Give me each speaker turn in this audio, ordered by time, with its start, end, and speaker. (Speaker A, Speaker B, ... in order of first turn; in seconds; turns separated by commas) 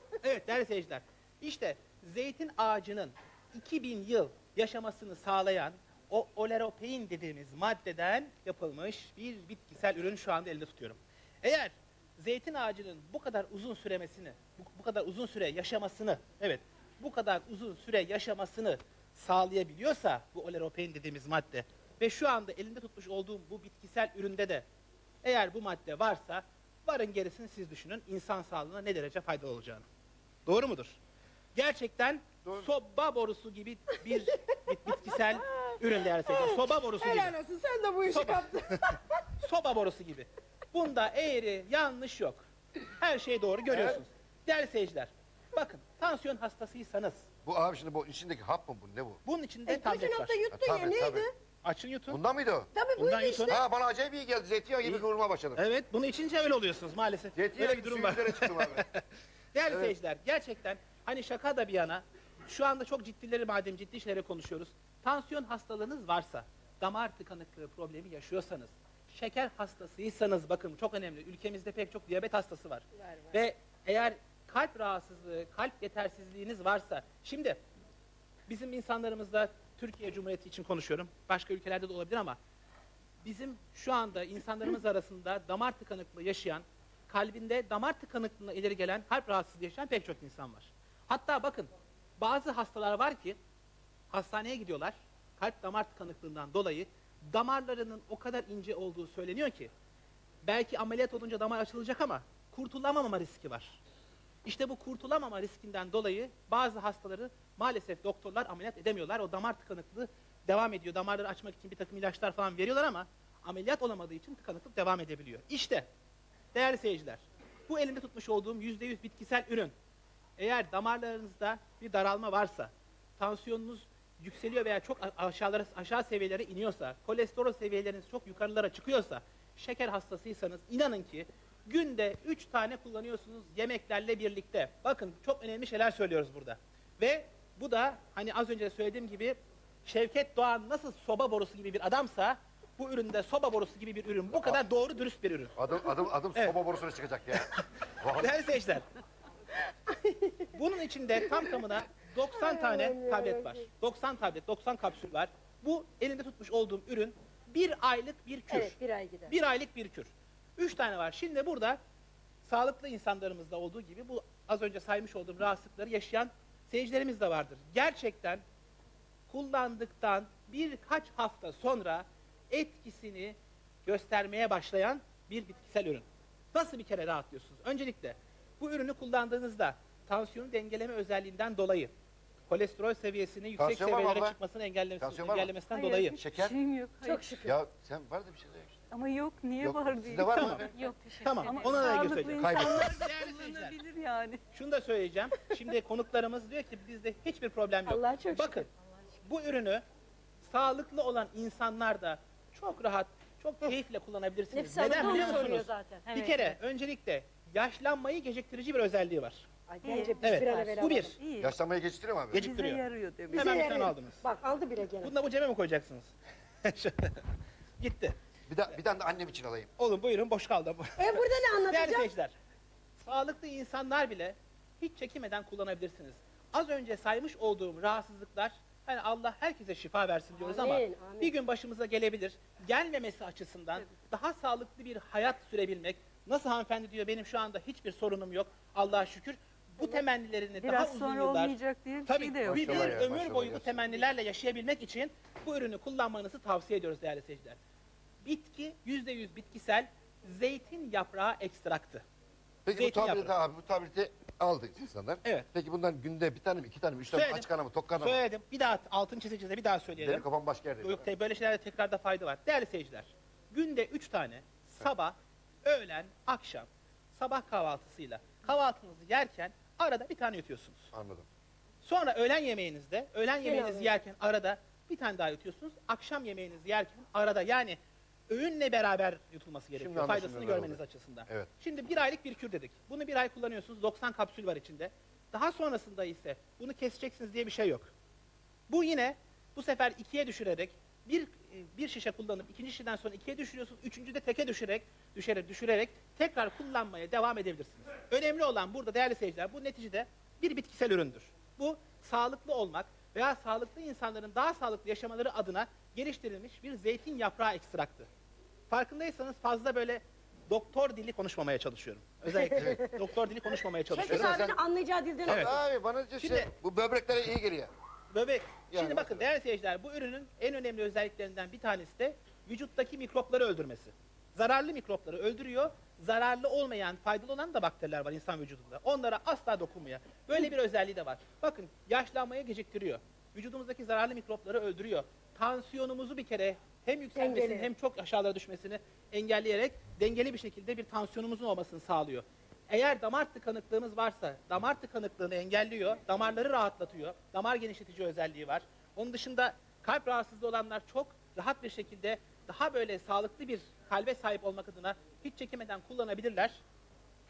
Speaker A: 0.2-24.6, Speaker A: 25.2-29.8, Speaker A: 30.4-31.0, Speaker A: 31.5-37.4, Speaker B: 35.0-39.0, Speaker A: 38.1-42.4, Speaker A: 43.0-47.3, Speaker C: 43.7-44.0, Speaker C: 47.4-49.2, Speaker A: 49.2-50.4, Speaker B: 49.7-51.3, Speaker C: 50.5-51.3, Speaker A: 51.6-52.2, Speaker C: 52.1-52.7, Speaker B: 52.7-53.6, Speaker A: 53.0-53.6, Speaker C: 53.4-55.6, Speaker A: 55.5-77.6, Speaker C: 57.3-58.9, Speaker C: 59.7-59.9, Speaker A: 78.5-82.4, Speaker A: 83.2-93.4, Speaker A: 94.1-99.7, Speaker A: 100.4-103.8, Speaker A: 104.4-115.8, Speaker A: 116.5-119.7, Speaker A: 120.4-145.5, Speaker C: 145.6-148.4, Speaker A: 147.3-147.6, Speaker A: 148.2-148.8, Speaker B: 149.7-150.5, Speaker A: 150.5-161.8, Speaker B: 152.3-153.6, Speaker B: 158.5-159.3, Speaker A: 162.4-168.4, Speaker A: 169.3-181.9, Speaker A: 182.5-186.2, Speaker C: 183.6-184.4, Speaker C: 185.0-185.5, Speaker D: 185.7-187.3, Speaker C: 186.2-186.6, Speaker B: 187.0-187.5, Speaker C: 187.4-188.8, Speaker D: 188.9-194.4, Speaker C: 189.6-190.7, Speaker A: 190.3-190.6, Speaker A: 191.2-193.8, Speaker C: 192.1-193.0, Speaker A: 194.5-198.7, Speaker B: 197.8-198.6, Speaker A: 199.2-199.8, Speaker A: 200.4-209.5, Speaker B: 204.5-206.1, Speaker D: 204.8-205.5, Speaker D: 206.1-206.6, Speaker B: 209.7-211.2, Speaker D: 209.8-211.5, Speaker A: 210.2-211.1, Speaker C: 211.4-212.4, Speaker D: 212.3-213.8, Speaker A: 212.3-214.2, Speaker B: 213.3-215.1, Speaker A: 215.0-216.1, Speaker A: 216.6-217.2, Speaker A: 217.8-218.1, Speaker C: 218.5-219.7, Speaker A: 219.8-222.3, Speaker B: 221.0-222.1, Speaker A: 223.0-247.6, Speaker B: 230.4-231.3, Speaker D: 240.6-243.0, Speaker C: 242.4-243.8, Speaker A: 248.2-252.0, Speaker C: 252.6-258.2, Speaker A: 252.7-253.3, Speaker A: 257.1-260.2, Speaker C: 260.0-261.0, Speaker A: 260.8-270.9, Speaker C: 270.9-271.2, Speaker A: 271.8-287.9, Speaker B: 273.4-273.9, Speaker C: 279.8-281.5, Speaker A: 288.7-308.1, Speaker A: 308.7-314.5, Speaker B: 312.4-313.0, Speaker B: 313.9-315.5, Speaker C: 314.0-314.6, Speaker A: 315.3-315.6, Speaker C: 315.3-317.7, Speaker A: 316.2-316.5, Speaker A: 318.1-356.6, Speaker C: 318.7-319.2, Speaker B: 337.1-337.7